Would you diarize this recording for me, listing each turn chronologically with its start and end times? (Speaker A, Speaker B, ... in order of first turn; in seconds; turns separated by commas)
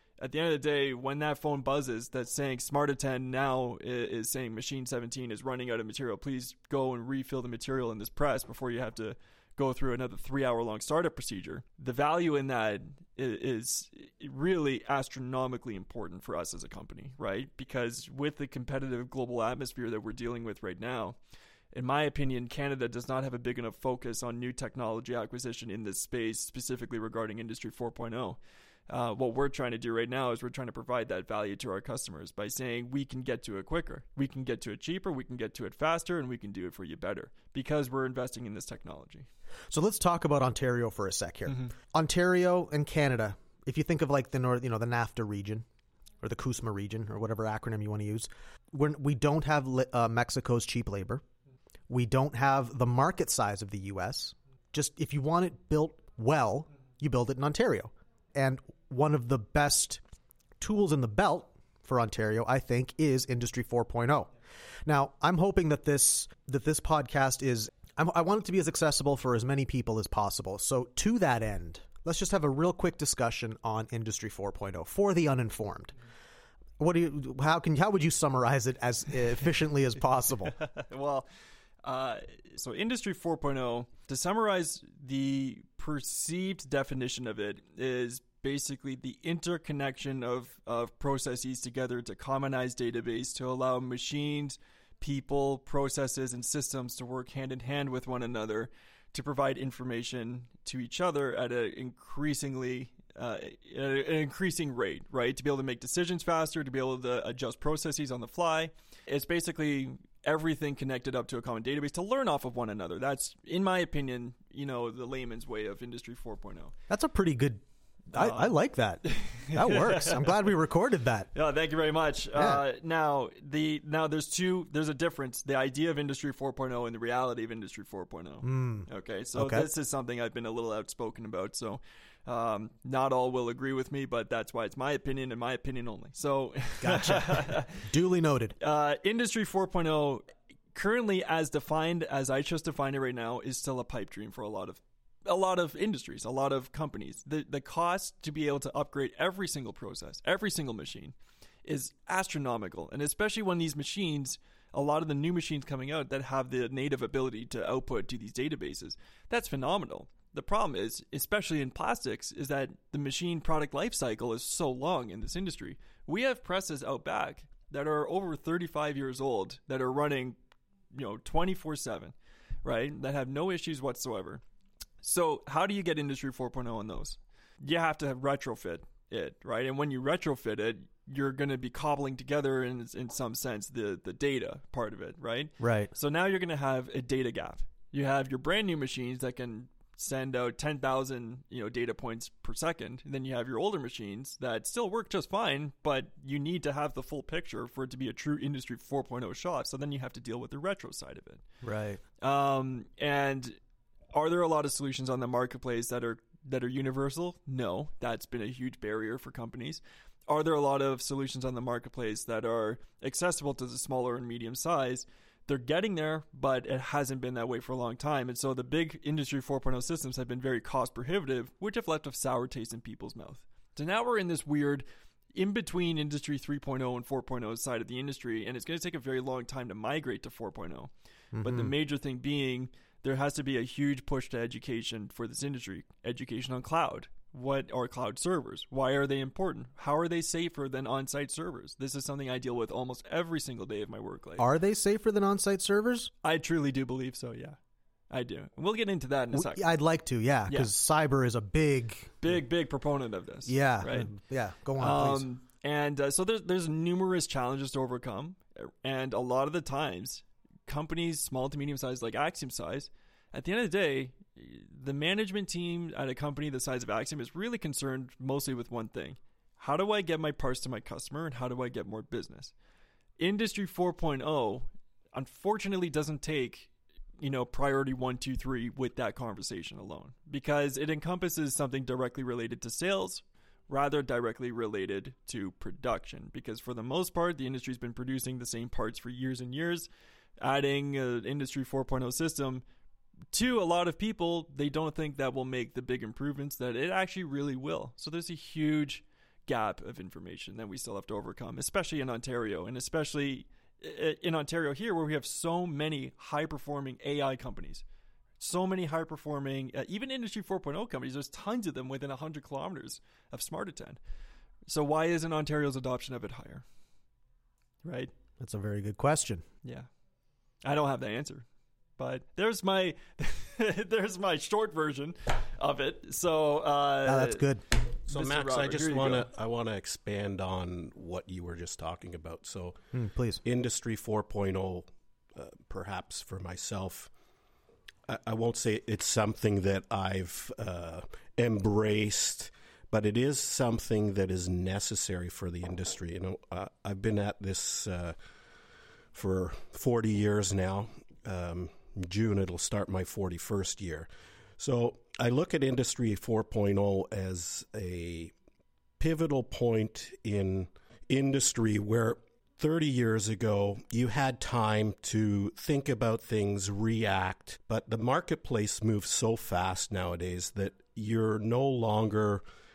Speaker A: 0.2-21.2, Speaker A: 21.7-39.3, Speaker B: 39.7-45.6, Speaker B: 46.2-51.2, Speaker B: 51.9-60.0, Speaker B: 60.6-64.3, Speaker B: 64.9-76.0, Speaker B: 76.8-80.5, Speaker A: 80.6-81.3, Speaker A: 81.8-116.7, Speaker B: 116.9-121.3, Speaker A: 118.2-118.5, Speaker A: 119.0-120.5, Speaker A: 121.3-137.8, Speaker B: 122.3-122.6, Speaker B: 128.4-129.7, Speaker B: 136.8-138.6, Speaker A: 138.6-170.4, Speaker A: 170.9-174.4, Speaker A: 175.0-201.4, Speaker B: 185.6-185.9, Speaker B: 201.6-202.0, Speaker A: 202.2-203.6, Speaker A: 204.1-230.9, Speaker B: 231.3-231.7, Speaker A: 231.4-244.5, Speaker B: 244.4-246.1, Speaker A: 246.2-247.6, Speaker A: 248.1-249.7, Speaker B: 249.3-252.2, Speaker A: 252.2-254.1, Speaker B: 253.5-255.2, Speaker A: 254.8-272.5, Speaker A: 273.2-289.9, Speaker A: 290.4-292.6, Speaker A: 293.3-307.8, Speaker A: 308.4-314.0, Speaker A: 314.7-316.6, Speaker A: 317.8-318.1, Speaker B: 318.4-319.4, Speaker A: 319.6-319.9, Speaker A: 320.6-321.5, Speaker A: 322.0-327.5, Speaker B: 327.1-327.6, Speaker A: 328.1-329.3, Speaker C: 328.1-332.8, Speaker B: 332.9-333.4, Speaker C: 333.4-337.1, Speaker C: 338.1-348.1, Speaker C: 349.1-354.1, Speaker C: 354.6-358.3, Speaker C: 359.0-372.4